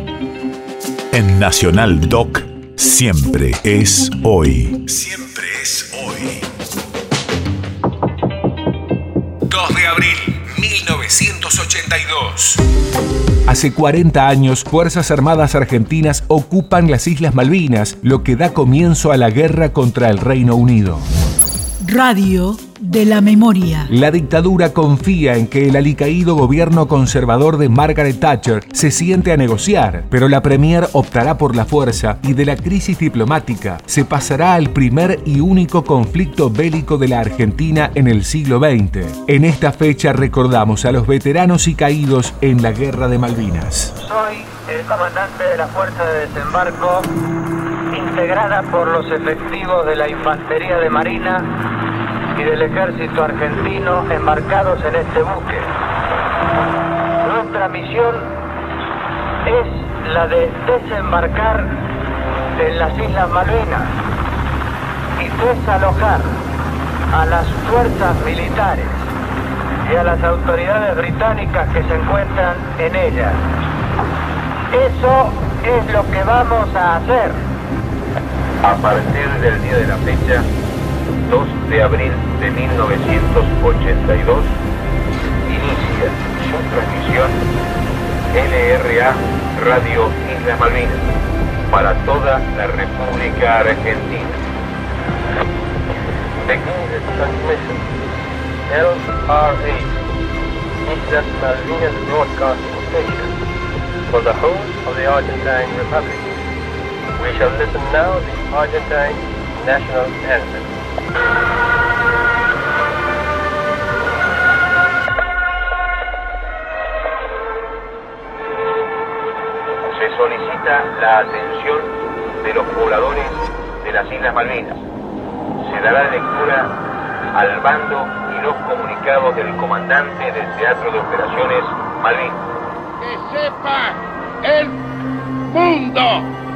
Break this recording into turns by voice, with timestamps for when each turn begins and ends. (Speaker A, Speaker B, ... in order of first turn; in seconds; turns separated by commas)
Speaker A: 1.1-6.4, Speaker B: 9.5-12.6, Speaker B: 13.5-21.1, Speaker C: 21.8-23.9, Speaker B: 23.9-43.9, Speaker D: 44.0-47.1, Speaker D: 47.9-51.5, Speaker D: 52.3-55.7, Speaker D: 57.2-58.3, Speaker D: 59.4-61.8, Speaker D: 62.5-64.0, Speaker D: 65.2-66.4, Speaker D: 67.1-69.1, Speaker D: 69.8-73.4, Speaker D: 74.7-77.4, Speaker E: 78.6-80.5, Speaker E: 81.3-84.5, Speaker E: 85.4-87.4, Speaker E: 88.3-91.1, Speaker E: 91.7-94.4, Speaker F: 96.4-97.8, Speaker F: 98.7-99.9, Speaker F: 100.8-103.3, Speaker F: 104.1-106.3, Speaker F: 107.2-110.7, Speaker E: 119.9-121.9, Speaker E: 122.4-124.8, Speaker E: 125.6-126.7, Speaker E: 127.3-132.4, Speaker G: 133.0-134.8, Speaker G: 135.5-136.3